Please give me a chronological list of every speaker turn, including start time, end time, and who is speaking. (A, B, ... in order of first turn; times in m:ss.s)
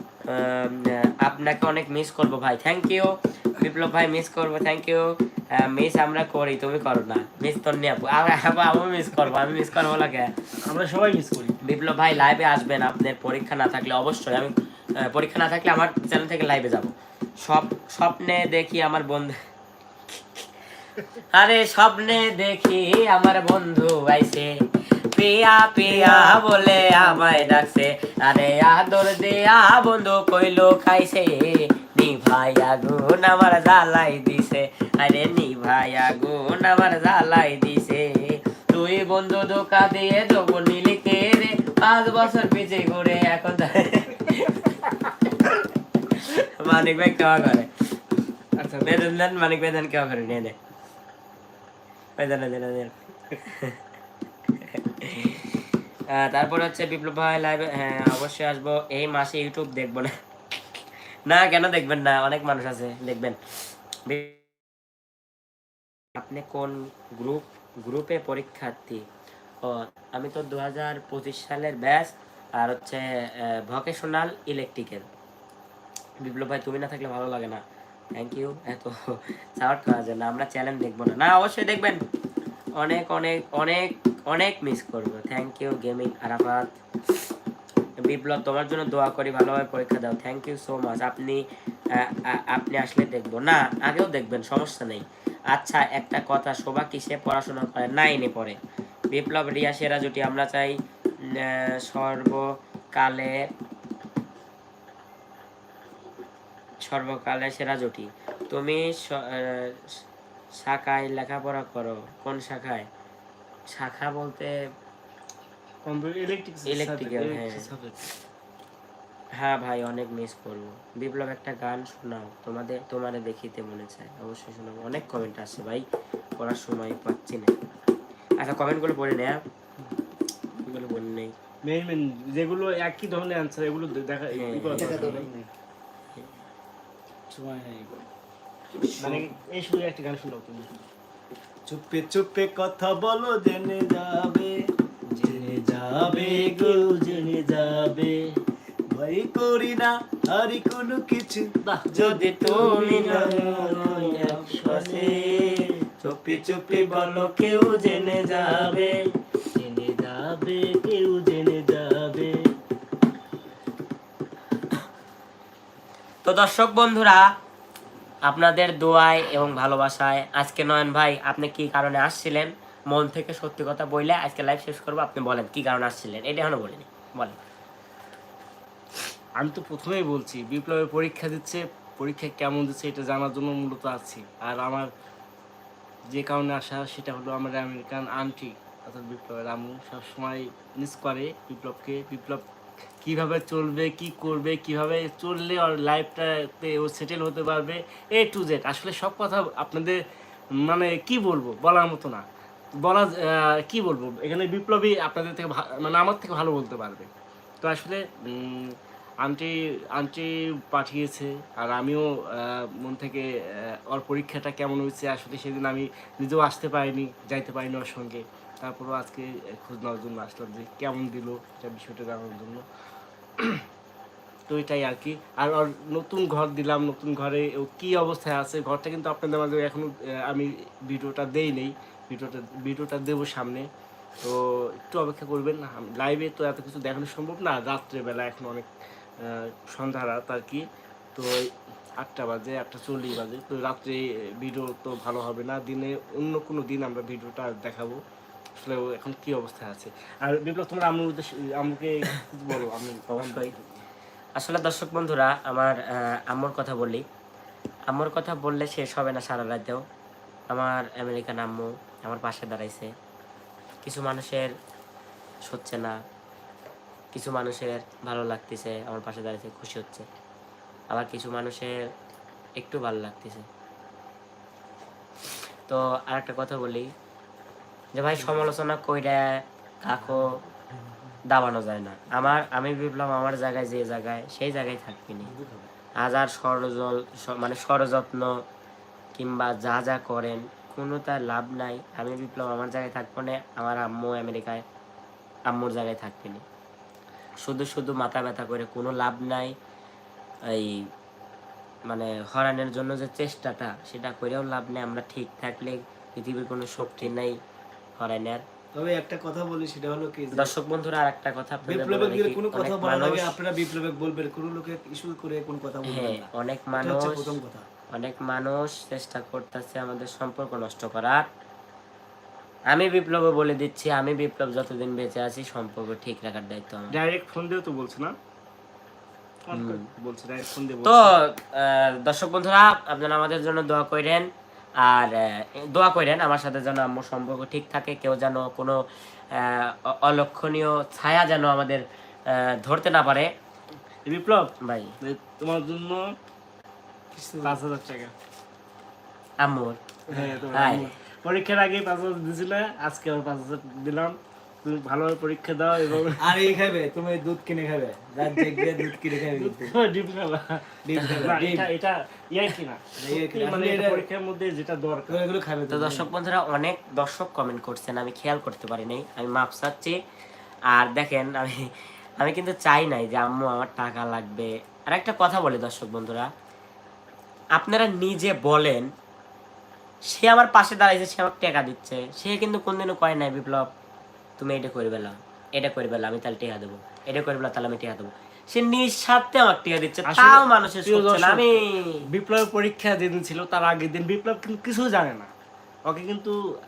0:00.2-0:10.3 A
0:10.6-0:11.6 B
0:11.6-0:19.4 A
0:20.1-0:20.4 A
0:21.3-0:24.5 A
0:25.1-0:47.7 A
0:25.9-0:27.4 B
0:48.6-0:49.0 B
0:48.8-0:50.5 A
0:52.2-0:53.8 A
0:54.6-1:00.1 A
1:01.3-1:03.4 A
1:04.0-1:04.4 A
1:06.2-1:09.0 A
1:09.6-1:15.0 A
1:16.2-1:17.6 A
1:18.1-1:22.0 A
1:22.8-1:26.8 A
1:28.0-1:38.6 A
1:39.1-1:43.5 A
1:46.8-1:50.0 A
1:50.6-1:52.9 A
1:53.7-1:54.5 A
1:55.8-1:58.0 B
1:56.7-1:57.6 A
1:59.4-2:05.8 A
2:06.4-2:07.5 A
2:08.4-2:09.4 A
2:10.6-2:11.3 A
2:11.6-2:15.3 B
2:14.3-2:15.2 A
2:14.7-2:15.5 C
2:17.3-2:18.0 C
2:18.8-2:19.3 C
2:19.0-2:20.7 B
2:21.7-2:24.6 C
2:25.1-2:28.2 B
2:25.2-2:27.4 C
2:28.9-2:35.4 C
2:31.6-2:31.9 B
2:31.9-2:33.8 A
2:32.6-2:35.7 B
2:34.6-2:35.4 A
2:36.0-2:38.9 A
2:36.0-2:38.8 C
2:37.9-2:39.0 B
2:39.5-2:42.4 B
2:46.2-2:47.3 A
2:48.2-2:57.4 A
2:59.4-3:04.9 B
3:06.1-3:12.4 B
3:13.0-3:20.0 B
3:20.6-3:22.2 B
3:22.8-3:27.1 B
3:27.6-3:42.6 B
3:43.4-3:43.6 B
3:44.5-3:53.7 B
3:54.2-4:08.0 B
4:08.5-4:13.8 B
4:13.1-4:13.5 A
4:14.4-4:17.0 A
4:17.9-4:19.8 A
4:20.5-4:22.9 A
4:23.8-4:24.5 A
4:25.4-4:26.0 A
4:27.1-4:30.0 A
4:30.9-4:31.8 A
4:32.6-4:33.5 A
4:35.7-4:36.9 A
4:37.9-4:40.3 A
4:41.3-4:45.3 A
4:45.2-4:45.7 C
4:46.0-4:48.4 A
4:49.2-4:54.6 A
4:55.5-4:56.4 A
4:57.4-4:59.5 A
5:00.5-5:00.9 A
5:01.9-5:07.4 A
5:08.0-5:08.4 A
5:08.7-5:10.5 C
5:10.3-5:13.3 A
5:11.6-5:17.7 C
5:15.8-5:17.4 A
5:17.9-5:21.3 A
5:22.7-5:26.9 A
5:26.9-5:28.1 B
5:29.4-5:31.1 B
5:29.5-5:29.8 A
5:30.8-5:34.3 A
5:34.8-5:43.3 A
5:44.0-5:46.1 B
5:44.6-5:44.9 A
5:47.1-5:47.6 C
5:47.4-5:48.1 B
5:49.4-5:49.8 A
5:50.1-5:56.4 B
5:50.5-5:50.9 A
5:56.2-5:59.7 C
5:58.2-6:05.2 B
6:00.8-6:01.7 C
6:03.0-6:04.0 C
6:05.1-6:06.1 C
6:05.7-6:10.0 A
6:10.7-6:16.3 A
6:17.5-6:18.9 A
6:20.1-6:23.7 A
6:24.4-6:32.0 A
6:30.0-6:35.3 B
6:35.8-6:36.4 B